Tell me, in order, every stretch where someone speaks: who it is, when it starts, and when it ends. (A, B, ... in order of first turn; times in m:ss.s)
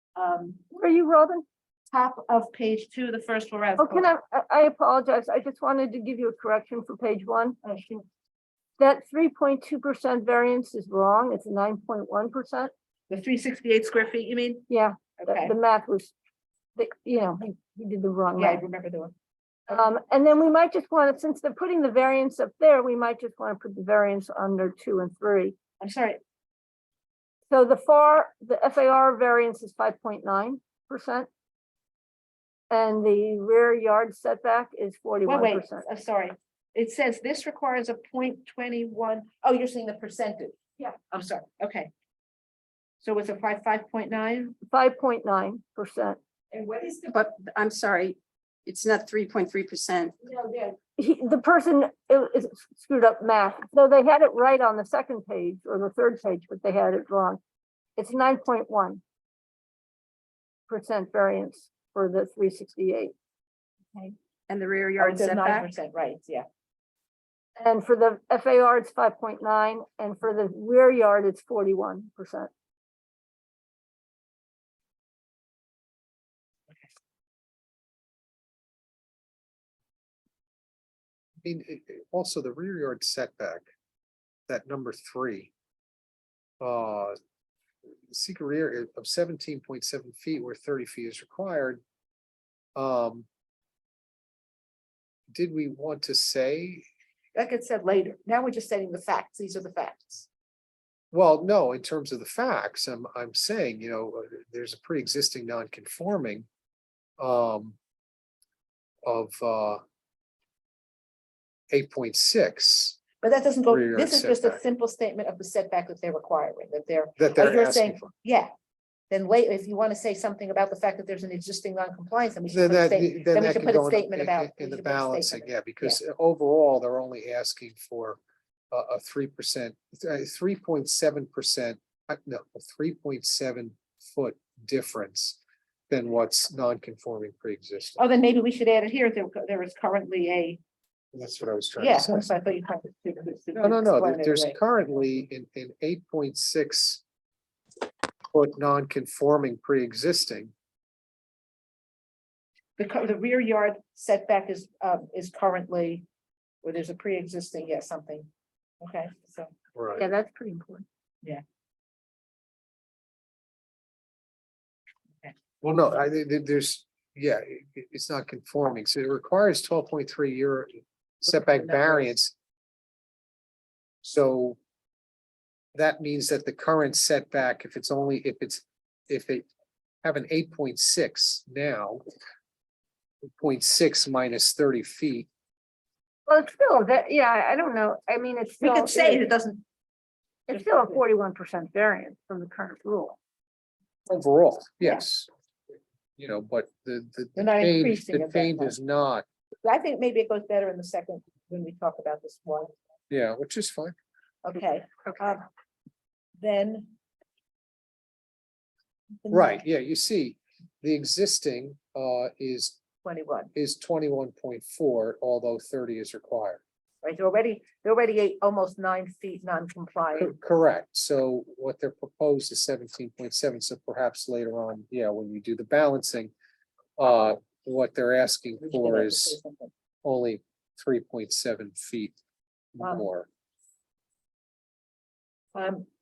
0:00.2-0:00.6 A
0:00.7-0:01.4 B
0:01.9-0:04.1 A
0:03.8-0:07.6 B
0:07.6-0:08.0 A
0:08.8-0:12.7 B
0:13.1-0:14.6 A
0:14.7-0:16.1 B
0:15.2-0:15.6 A
0:16.8-0:18.6 B
0:18.4-0:19.1 A
0:19.7-0:25.6 B
0:25.8-0:26.2 A
0:27.5-0:31.3 B
0:32.7-0:35.8 B
0:35.3-0:41.9 A
0:43.0-0:44.6 A
0:44.7-0:46.2 B
0:46.6-0:50.2 C
0:50.2-0:57.4 B
0:58.0-0:59.0 B
1:00.7-1:03.1 B
1:04.5-1:05.7 C
1:05.0-1:06.5 A
1:07.6-1:12.5 B
1:21.4-1:23.6 D
1:24.5-1:25.5 D
1:26.6-1:27.2 D
1:28.1-1:31.8 D
1:32.8-1:33.3 D
1:35.3-1:36.8 D
1:37.4-1:40.3 A
1:41.1-1:46.5 D
1:47.2-1:47.8 D
1:49.0-1:49.8 D
1:51.7-1:53.0 D
1:53.2-1:58.5 A
1:53.7-1:54.6 D
1:57.2-1:58.1 D
1:59.1-2:06.0 A
2:02.5-2:08.2 D
2:08.7-2:15.4 D
2:15.9-2:18.0 D
2:18.0-2:20.6 A
2:21.1-2:22.3 D
2:21.8-2:24.6 A
2:23.6-2:27.0 D
2:28.3-2:30.5 D
2:32.8-2:36.0 A
2:36.6-2:38.3 A
2:38.8-2:39.5 A
2:39.8-2:40.0 D
2:40.0-2:40.9 B
2:45.6-2:50.7 D
2:51.2-2:52.3 D
2:54.0-2:54.6 D
2:55.8-2:59.5 D
3:00.0-3:02.0 D
3:03.4-3:05.3 D
3:06.3-3:09.2 B
3:08.6-3:09.6 A
3:10.5-3:13.2 B
3:10.5-3:11.0 A
3:14.1-3:15.3 D
3:16.2-3:19.2 D
3:17.4-3:18.8 A
3:19.6-3:22.7 A
3:23.1-3:24.0 D
3:24.4-3:25.5 A
3:26.4-3:26.9 A
3:29.2-3:29.6 A
3:29.3-3:32.8 D
3:33.0-3:33.5 A
3:33.5-3:36.6 D
3:37.0-3:40.3 A
3:40.2-3:46.3 D
3:47.0-3:49.4 D
3:48.6-3:49.7 A
3:50.0-3:52.2 D
3:52.8-3:53.3 D
3:55.6-3:55.9 A